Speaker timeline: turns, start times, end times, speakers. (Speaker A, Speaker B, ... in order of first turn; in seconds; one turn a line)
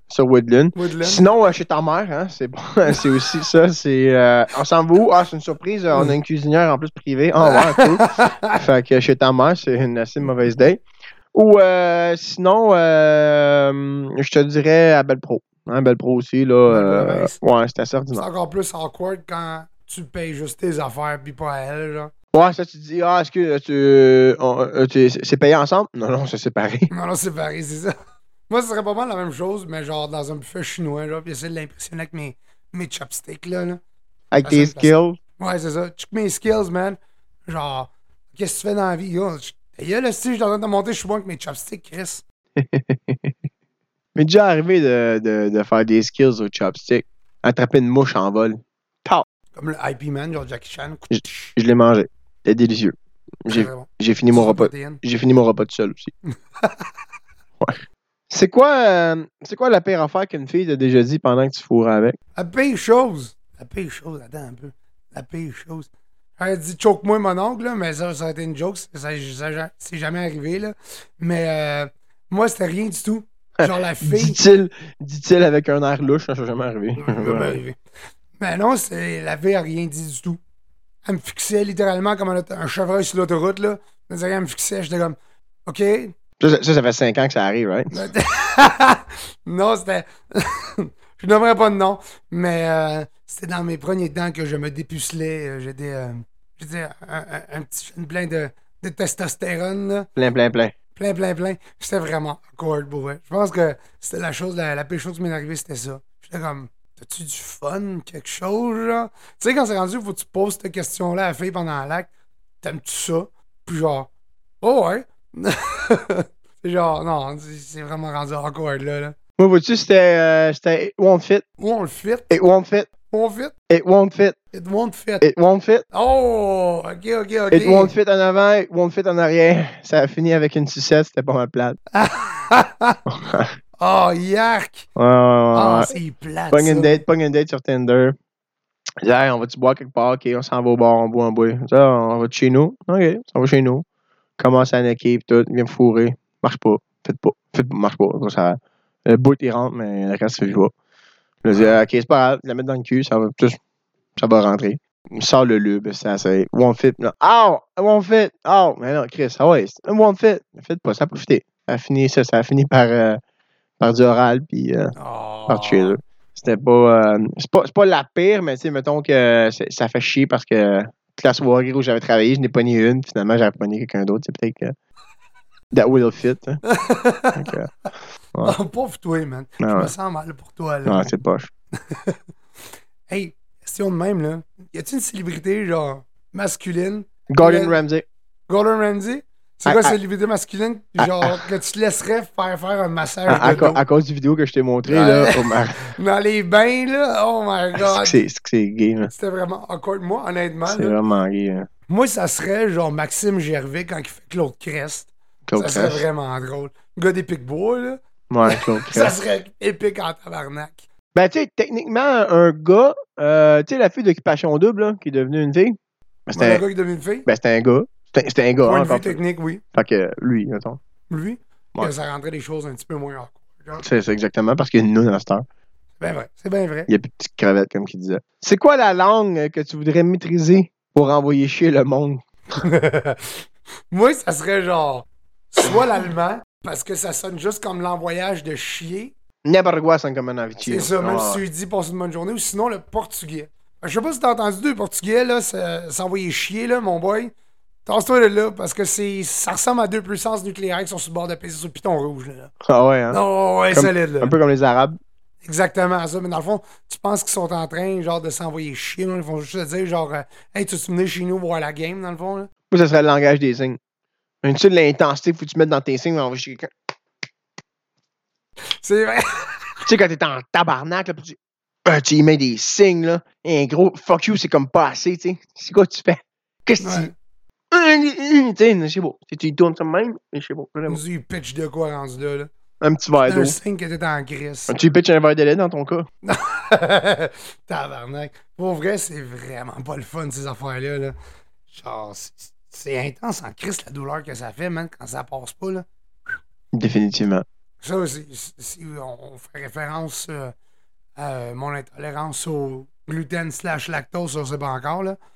Speaker A: 0.1-10.8
Speaker B: 0.8-1.3
Speaker B: 7.4-8.6
Speaker A: 11.3-18.2
Speaker B: 16.7-17.4
Speaker B: 18.1-22.1
Speaker A: 22.3-26.9
Speaker B: 26.9-27.9
Speaker B: 28.5-33.8
Speaker A: 34.3-35.2
Speaker B: 34.4-42.2
Speaker A: 42.6-43.3
Speaker A: 44.2-49.2
Speaker B: 49.5-51.5
Speaker A: 51.1-56.1
Speaker B: 53.5-55.0
Speaker B: 56.6-56.9
Speaker A: 57.6-62.2
Speaker B: 62.4-74.4
Speaker A: 73.6-77.6
Speaker B: 77.0-77.8
Speaker B: 78.4-80.4
Speaker B: 81.0-86.2
Speaker A: 86.4-88.0
Speaker B: 87.9-100.1
Speaker A: 100.2-100.7
Speaker B: 101.0-112.1
Speaker B: 112.6-114.1
Speaker B: 114.6-119.2
Speaker A: 119.4-121.5
Speaker B: 121.6-122.3
Speaker A: 122.3-122.9
Speaker B: 123.1-123.5
Speaker A: 123.7-124.4
Speaker B: 124.5-125.3
Speaker A: 125.2-125.8
Speaker B: 125.9-127.9
Speaker A: 127.5-131.8
Speaker B: 131.9-133.0
Speaker A: 133.1-133.6
Speaker B: 133.8-134.9
Speaker A: 135.0-135.9
Speaker B: 135.5-137.0
Speaker A: 136.5-138.2
Speaker A: 139.0-143.8
Speaker A: 144.4-150.7
Speaker A: 151.4-153.6
Speaker B: 151.5-151.8
Speaker A: 154.2-163.2
Speaker A: 163.8-165.0
Speaker B: 165.0-166.0
Speaker A: 165.5-174.8
Speaker A: 175.7-176.6
Speaker B: 176.7-177.6
Speaker A: 177.3-177.7
Speaker B: 178.4-181.1
Speaker A: 179.6-179.9
Speaker A: 180.9-181.5
Speaker B: 181.8-182.2
Speaker B: 183.1-187.8
Speaker A: 187.3-188.1
Speaker B: 188.5-193.8
Speaker A: 189.7-190.0
Speaker A: 191.0-191.5
Speaker A: 193.3-195.9
Speaker B: 194.9-198.2
Speaker A: 197.8-199.1
Speaker B: 199.1-201.0
Speaker A: 200.7-201.7
Speaker B: 201.9-210.8
Speaker A: 205.5-206.0
Speaker A: 208.3-209.1
Speaker A: 211.1-216.6
Speaker B: 216.4-217.3
Speaker A: 217.3-219.2
Speaker B: 218.6-219.6
Speaker A: 219.7-220.8
Speaker B: 221.1-223.8
Speaker A: 223.8-225.5
Speaker B: 226.0-226.9
Speaker A: 226.9-232.3
Speaker B: 232.6-239.1
Speaker A: 239.4-241.4
Speaker B: 240.6-247.3
Speaker B: 247.9-252.5
Speaker A: 252.6-253.2
Speaker B: 253.1-254.3
Speaker A: 253.7-255.0
Speaker B: 255.4-262.5
Speaker A: 262.7-263.8
Speaker A: 264.4-266.7
Speaker B: 268.7-269.8
Speaker A: 269.9-277.1
Speaker B: 276.8-277.1
Speaker A: 277.7-281.0
Speaker B: 280.9-282.5
Speaker A: 282.8-283.6
Speaker B: 283.2-284.8
Speaker A: 284.7-286.1
Speaker B: 286.2-291.2
Speaker B: 291.7-295.9
Speaker A: 296.7-297.4
Speaker B: 297.8-300.6
Speaker B: 301.2-305.2